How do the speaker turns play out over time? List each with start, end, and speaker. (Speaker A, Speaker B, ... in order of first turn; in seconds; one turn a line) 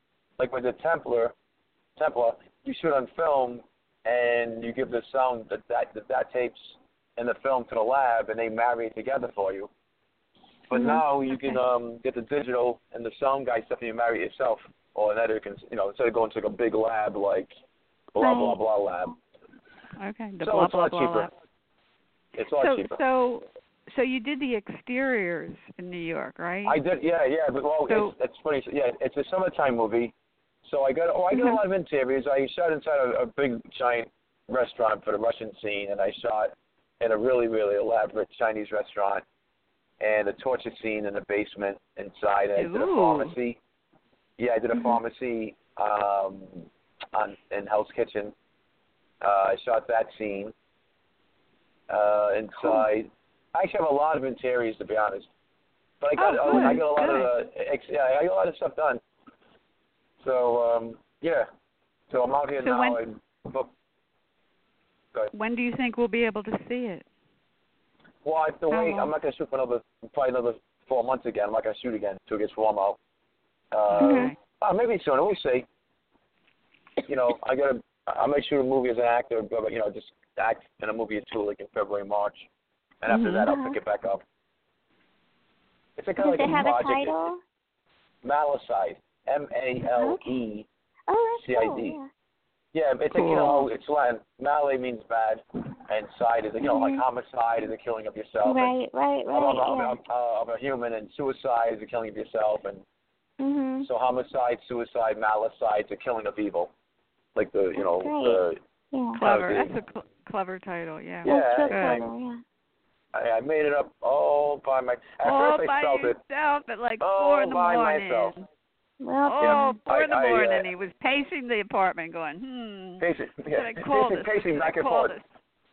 Speaker A: 0.4-1.3
Speaker A: 2.0-9.7
Speaker A: 10.7-17.5
Speaker B: 10.7-11.0
Speaker A: 18.1-19.2
Speaker B: 18.2-18.6
Speaker C: 20.0-21.3
Speaker A: 20.4-21.3
Speaker A: 22.4-23.0
Speaker C: 22.6-26.8
Speaker A: 26.6-30.1
Speaker C: 27.9-28.1
Speaker A: 30.6-39.2
Speaker A: 40.0-43.6
Speaker C: 42.6-43.4
Speaker A: 44.4-48.3
Speaker A: 49.2-50.5
Speaker A: 51.9-55.3
Speaker A: 56.0-59.0
Speaker C: 56.2-57.3
Speaker A: 60.2-61.5
Speaker A: 62.1-63.7
Speaker C: 62.6-63.0
Speaker C: 65.3-67.1
Speaker A: 68.2-73.0
Speaker C: 68.7-69.1
Speaker A: 73.7-75.7
Speaker C: 73.9-74.4
Speaker B: 74.0-74.3
Speaker A: 77.0-82.5
Speaker A: 83.0-84.2
Speaker C: 83.1-83.5
Speaker B: 83.5-83.8
Speaker A: 86.0-87.3
Speaker B: 86.2-87.4
Speaker A: 88.2-90.7
Speaker B: 89.9-90.4
Speaker B: 91.1-92.1
Speaker A: 91.4-92.0
Speaker A: 92.7-98.7
Speaker C: 93.1-93.6
Speaker B: 96.6-97.0
Speaker B: 98.4-100.0
Speaker A: 99.3-102.8
Speaker B: 103.4-103.9
Speaker A: 103.8-106.7
Speaker A: 107.3-108.6
Speaker B: 107.8-109.2
Speaker C: 109.2-112.0
Speaker A: 109.2-109.7
Speaker A: 111.2-112.1
Speaker B: 111.2-112.4
Speaker A: 113.1-116.2
Speaker C: 115.2-118.5
Speaker A: 117.0-118.3
Speaker B: 119.0-119.8
Speaker C: 119.3-125.2
Speaker A: 119.4-120.7
Speaker A: 123.0-125.2